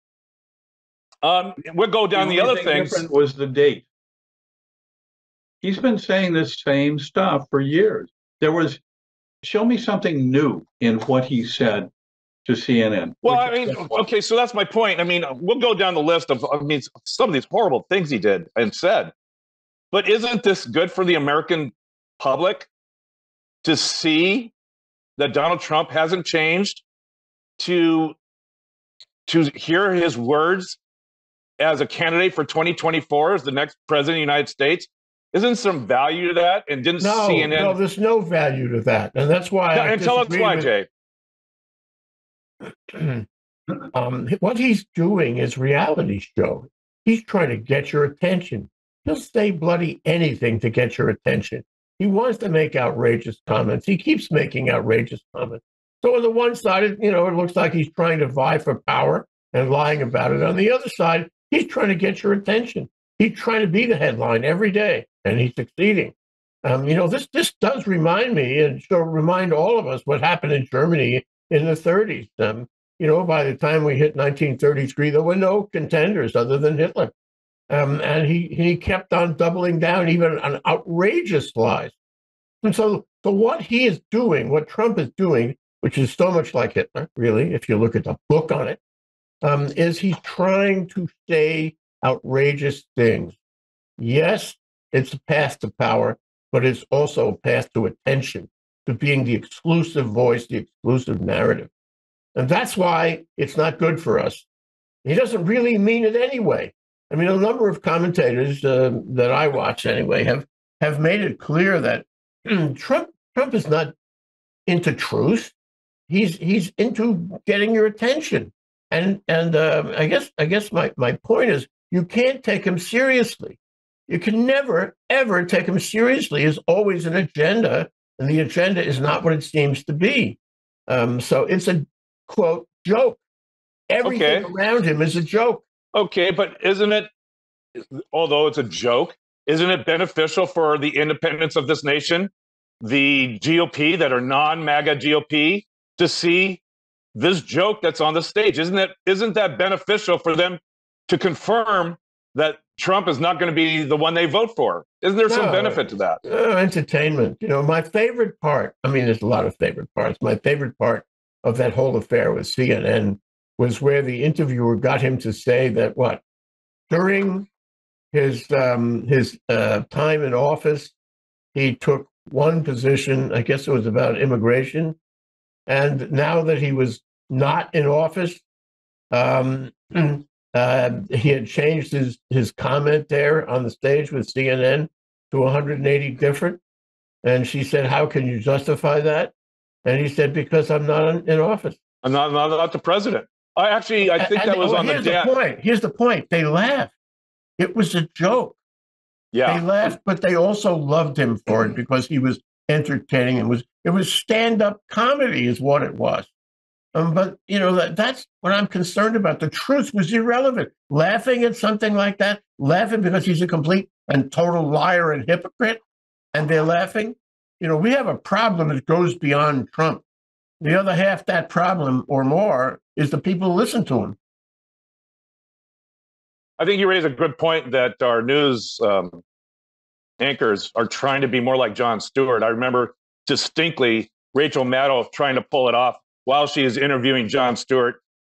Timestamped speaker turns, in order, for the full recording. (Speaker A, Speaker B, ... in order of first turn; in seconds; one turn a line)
Speaker A: 1.2-3.1
Speaker B: 2.1-3.9
Speaker B: 5.6-8.8
Speaker B: 9.4-11.9
Speaker B: 12.4-13.8
Speaker A: 13.2-19.1
Speaker A: 19.9-22.7
Speaker A: 23.6-24.5
Speaker A: 25.2-26.8
Speaker A: 27.6-28.2
Speaker A: 29.3-30.8
Speaker A: 31.6-37.8
Speaker C: 37.0-40.7
Speaker A: 39.7-40.9
Speaker C: 42.6-43.3
Speaker C: 43.9-77.1
Speaker C: 77.7-82.0
Speaker C: 82.6-88.8
Speaker C: 89.4-93.4
Speaker C: 94.0-101.7
Speaker C: 102.3-104.5
Speaker C: 105.0-113.9
Speaker C: 114.7-115.5
Speaker C: 116.1-133.2
Speaker C: 133.9-135.7
Speaker A: 134.0-134.5
Speaker A: 135.9-137.1
Speaker A: 137.8-146.6
Speaker A: 147.2-156.2
Speaker C: 155.3-166.2
Speaker C: 166.9-167.5
Speaker C: 168.1-170.9
Speaker C: 171.5-175.0
Speaker C: 175.7-178.4
Speaker C: 179.1-186.6
Speaker C: 187.2-189.3
Speaker C: 189.8-191.8
Speaker A: 192.0-195.3
Speaker C: 194.1-196.9
Speaker C: 197.6-198.6
Speaker A: 199.3-199.7
Speaker C: 199.5-206.3
Speaker C: 206.9-215.8
Speaker C: 216.3-220.0
Speaker C: 220.6-224.2
Speaker A: 226.6-229.2
Speaker A: 230.2-238.0